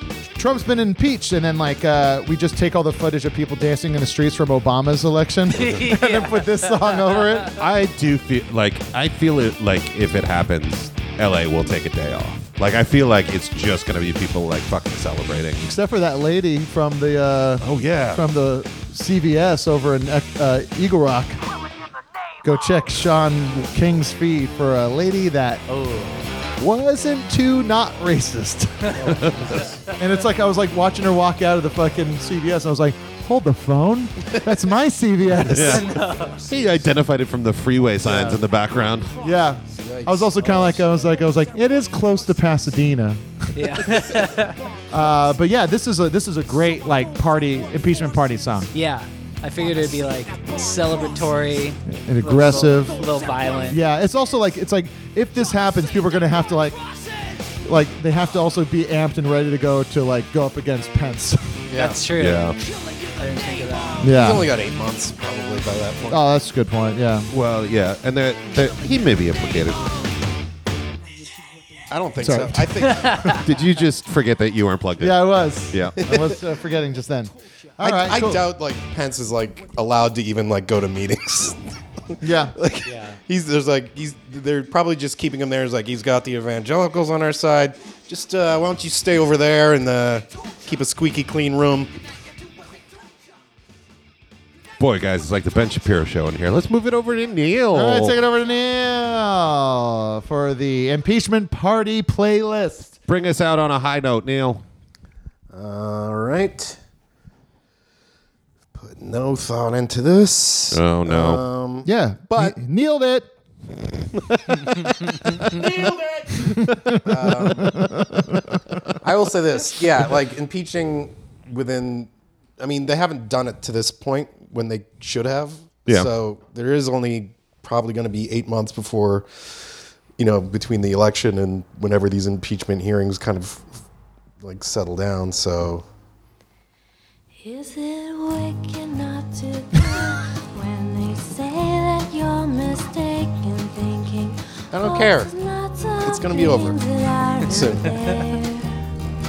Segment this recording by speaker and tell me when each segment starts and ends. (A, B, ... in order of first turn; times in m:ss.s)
0:00.4-0:07.6 A
0:05.5-0:07.5 B
0:07.6-0:15.6 C
0:15.6-0:21.4 A
0:17.6-0:18.2 C
0:22.4-0:25.6 A
0:25.7-0:26.1 B
0:26.6-0:29.1 A
0:29.0-0:29.8 D
0:29.1-0:29.5 C
0:30.0-0:35.9 A
0:35.5-0:36.0 C
0:35.6-0:36.4 B
0:36.4-0:39.1 C
0:38.0-0:38.4 A
0:38.1-0:38.3 D
0:39.2-0:43.7 A
0:39.8-0:40.8 D
0:43.6-0:44.6 B
0:44.9-0:48.7 A
0:48.7-0:53.8 B
0:51.9-0:53.0 A
0:53.7-0:56.8 A
0:57.6-1:01.6 A
1:01.7-1:02.0 D
1:01.7-1:02.6 B
1:02.2-1:02.6 C
1:03.2-1:04.0 B
1:04.0-1:04.5 A
1:04.1-1:06.3 D
1:06.1-1:07.3 A
1:07.3-1:10.0 C
1:11.9-1:13.4 D
1:12.2-1:12.7 A
1:12.8-1:13.4 B
1:13.4-1:16.2 C
1:15.0-1:18.5 A
1:16.0-1:16.3 D
1:17.8-1:21.6 D
1:22.2-1:22.6 A
1:22.6-1:31.9 D
1:22.8-1:23.2 B
1:34.8-1:38.2 C
1:37.7-1:43.0 A
1:43.1-1:44.6 C
1:45.5-1:46.8 D
1:48.7-1:52.6 D
1:50.7-1:51.4 C
1:51.8-1:53.3 A
1:54.5-1:54.9 A
1:55.5-1:55.8 A
1:55.5-1:56.3 D
1:56.3-1:58.6 A
1:56.6-1:56.9 C
1:57.0-1:57.8 D
1:59.0-2:09.4 D
2:10.2-2:13.7 D
2:14.4-2:15.9 D
2:17.3-2:28.8 E
2:24.7-2:25.3 D
2:26.0-2:26.8 D
2:27.4-2:27.9 D